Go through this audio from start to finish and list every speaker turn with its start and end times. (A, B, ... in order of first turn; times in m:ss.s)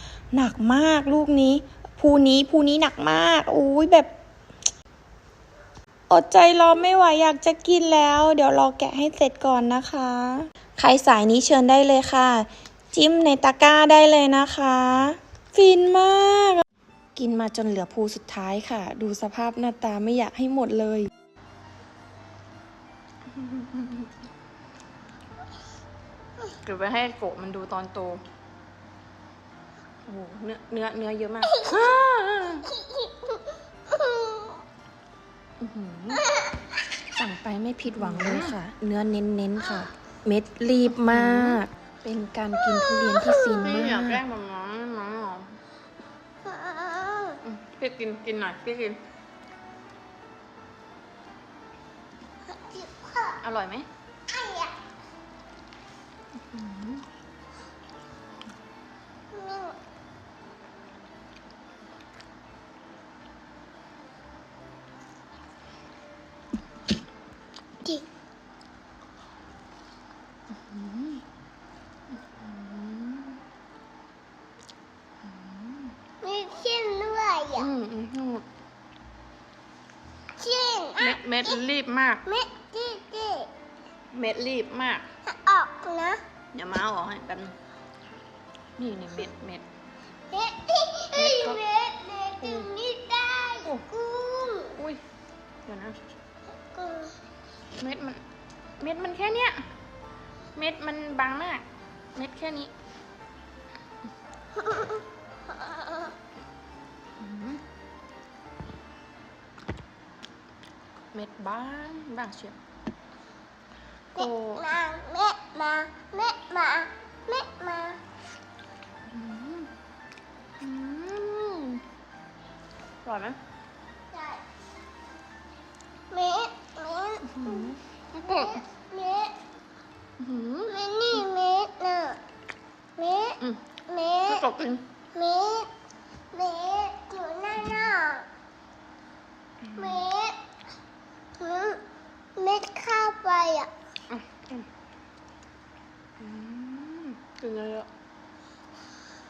0:00.3-0:04.1 A
0:06.1-0:16.6 A
0:17.2-0:21.1 A
0:23.3-0:24.1 B
0:26.6-0:28.2 B
0:30.0-0:32.7 B
0:32.7-0:34.6 C
0:35.6-0:36.2 B
0:37.1-0:44.2 A
0:37.8-0:38.5 B
0:40.9-0:41.6 B
0:42.8-0:43.7 C
0:43.6-0:45.6 B
0:46.4-0:47.4 C
0:47.4-0:49.0 B
0:52.5-0:53.4 C
0:53.4-0:53.9 B
0:54.3-0:54.7 C
0:56.5-0:57.0 B
0:59.3-0:59.7 C
1:10.6-1:11.2 B
1:12.2-1:13.4 B
1:15.2-1:15.9 B
1:16.2-1:17.7 C
1:17.6-1:18.4 B
1:20.4-1:21.5 C
1:21.0-1:22.2 B
1:22.2-1:23.5 C
1:24.1-1:25.0 B
1:25.2-1:26.2 C
1:26.5-1:27.5 B
1:28.8-1:29.6 B
1:30.3-1:34.8 C
1:31.1-1:31.6 B
1:32.4-1:32.7 B
1:34.7-1:35.0 B
1:35.6-1:36.0 B
1:36.5-1:37.2 C
1:37.8-1:38.2 B
1:38.8-1:39.6 B
1:40.6-1:41.6 B
1:42.2-1:42.7 B
1:44.6-1:45.0 C
1:45.6-1:46.1 C
1:47.2-1:47.6 B
1:51.1-1:52.6 B
1:54.1-1:54.7 B
1:54.2-1:58.0 C
1:59.1-1:59.7 B
2:00.6-2:01.8 B
2:03.0-2:03.4 B
2:04.1-2:04.4 C
2:06.1-2:09.4 C
2:07.2-2:08.6 B
2:10.2-2:11.2 B
2:10.7-2:12.2 C
2:13.0-2:14.4 C
2:14.2-2:14.8 B
2:15.1-2:15.7 C
2:16.3-2:18.3 C
2:19.7-2:20.0 B
2:19.8-2:20.4 C
2:21.4-2:21.8 C
2:22.4-2:23.7 C
2:24.1-2:24.6 B
2:26.2-2:27.9 B